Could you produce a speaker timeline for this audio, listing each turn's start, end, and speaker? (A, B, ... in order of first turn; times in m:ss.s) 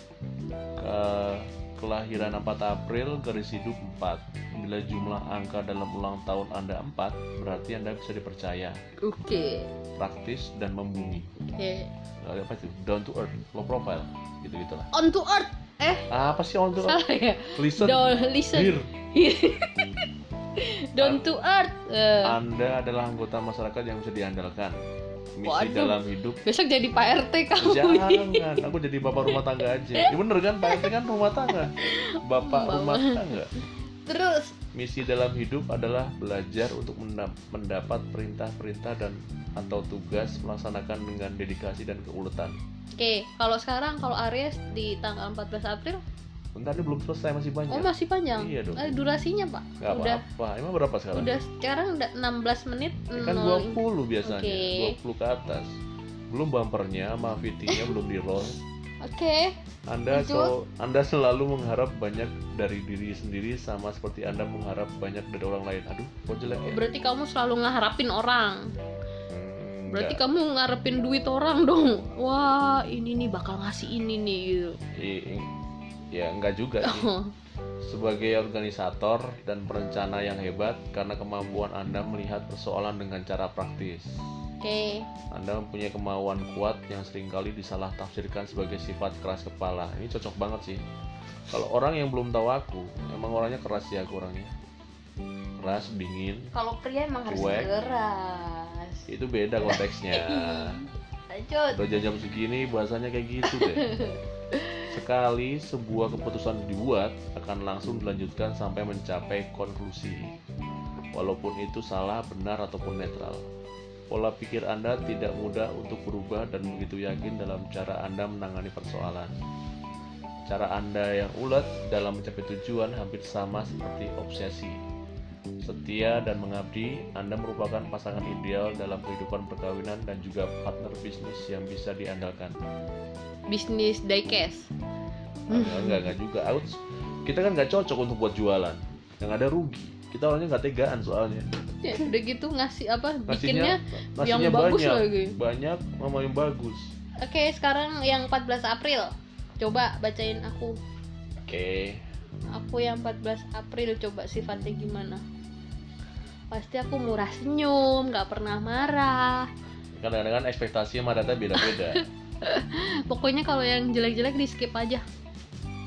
0:00.8-0:08.8 A
0:09.0-0:09.7 B
0:10.0-0:11.3 A
0:11.5-0:11.9 B
0:12.2-0:14.9 A
0:14.9-0:16.1 B
0:16.1-0:17.0 A
0:16.8-0:20.1 B
0:17.6-0:18.9 A
0:20.6-0:22.4 B
0:22.2-0:24.8 A
0:25.4-0:26.4 A
0:25.4-0:28.5 B
0:27.6-0:33.5 A
0:31.5-0:33.5 B
0:34.1-0:34.6 B
0:34.7-0:42.6 A
0:43.0-0:46.0 B
0:46.6-0:48.9 A
0:47.7-0:50.2 B
0:49.8-0:51.3 A
0:51.1-0:55.0 B
0:53.2-0:55.7 A
0:56.3-0:58.6 A
0:59.0-0:59.6 B
0:59.9-1:06.8 A
1:00.1-1:00.5 B
1:06.6-1:08.7 B
1:09.3-1:10.2 A
1:09.9-1:14.8 B
1:14.9-1:15.5 A
1:16.1-1:17.1 A
1:16.8-1:17.3 B
1:17.8-1:24.1 A
1:24.6-1:25.1 B
1:25.3-1:30.8 A
1:31.5-1:34.5 A
1:35.6-1:36.5 A
1:36.5-1:39.1 B
1:37.3-1:37.7 A
1:39.1-1:40.8 A
1:39.6-1:41.8 B
1:41.7-1:43.9 A
1:43.4-1:44.9 B
1:44.9-1:50.3 A
1:51.1-1:53.4 A
1:54.1-1:59.4 A
2:00.5-2:04.8 A
2:05.6-2:12.6 A
2:13.5-2:14.7 B
2:15.5-2:21.5 A
2:15.5-2:16.1 B
2:21.8-2:25.4 B
2:23.3-2:26.9 A
2:27.2-2:30.8 B
2:31.4-2:32.0 A
2:32.5-2:35.2 B
2:36.5-2:39.5 B
2:40.0-2:42.0 A
2:41.6-2:45.0 B